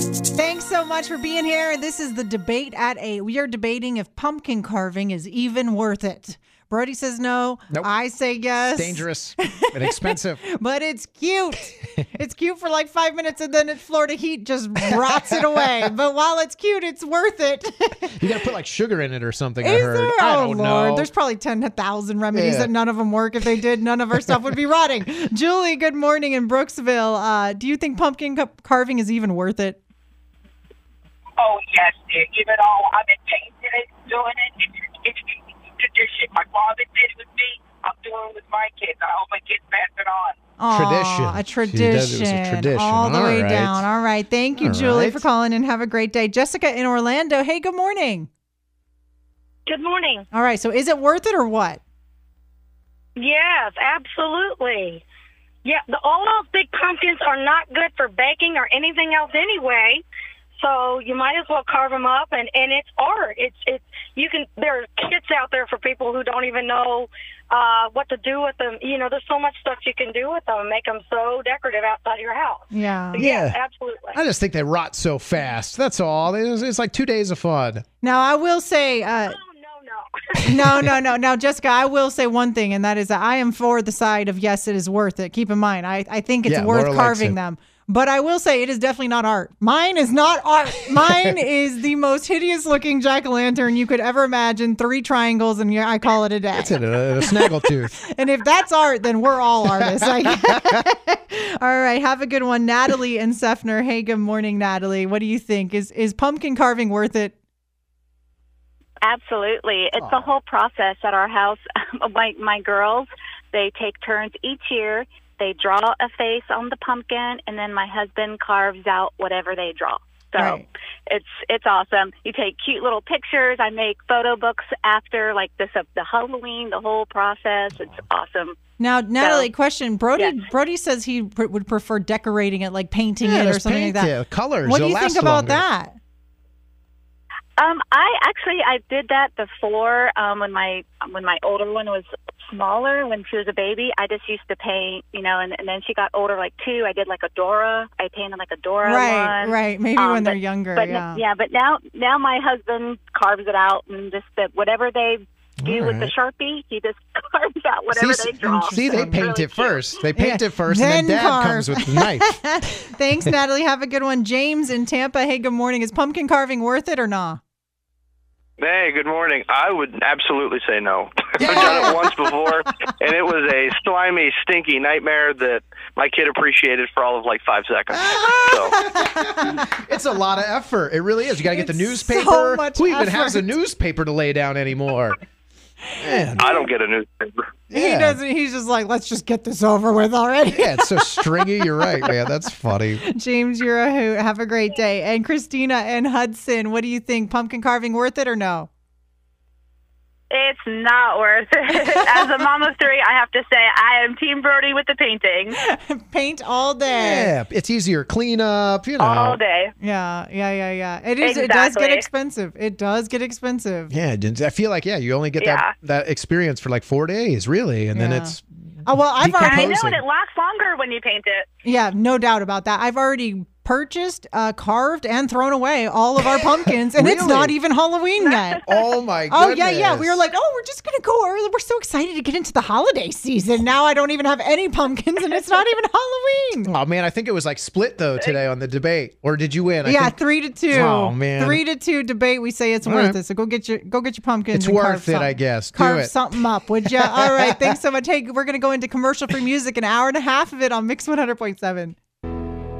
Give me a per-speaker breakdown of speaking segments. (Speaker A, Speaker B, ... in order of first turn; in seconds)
Speaker A: 0.3-18.2, 19.6-29.8, 40.6-48.3, 50.3-51.8, 72.7-73.2, 78.0-79.4, 80.4-107.3, 120.4-120.6, 128.8-134.1, 134.6-136.0, 148.8-151.2, 158.3-159.3, 160.1-167.4, 171.4-171.9, 178.1-179.7, 181.5-183.5, 185.9-186.6, 187.7-192.1, 193.0-198.7, 201.7-202.5, 205.6-207.3, 209.8-213.9, 217.9-219.9, 221.6-228.6, 229.3-236.7, 239.8-251.9
Speaker B: 8.6-10.4, 14.9-15.6, 18.2-21.1, 22.3-22.7, 40.7-43.9, 44.6-45.2, 73.2-73.6, 74.1-77.8, 86.5-87.4, 96.5-98.0, 99.8-100.8, 110.0-110.3, 133.2-135.6, 155.6-156.1, 157.9-162.4, 171.4-172.0, 177.9-185.2, 186.0-186.5, 187.7-188.2, 190.5-193.0, 206.9-209.4, 213.9-218.4, 219.2-220.0, 226.9-227.6, 228.6-230.2, 236.6-240.2, 240.7-241.6, 242.8-243.2, 244.5-247.8
Speaker C: 31.4-40.3
Speaker D: 49.7-50.2, 53.2-55.0, 55.6-60.0, 60.6-74.2, 79.3-80.9
Speaker E: 109.0-128.6, 129.2-129.4, 137.6-159.2
Speaker F: 168.6-178.8, 186.4-187.5
Speaker G: 200.3-205.6, 209.0-209.7, 211.2-212.1, 215.4-215.7, 219.3-221.4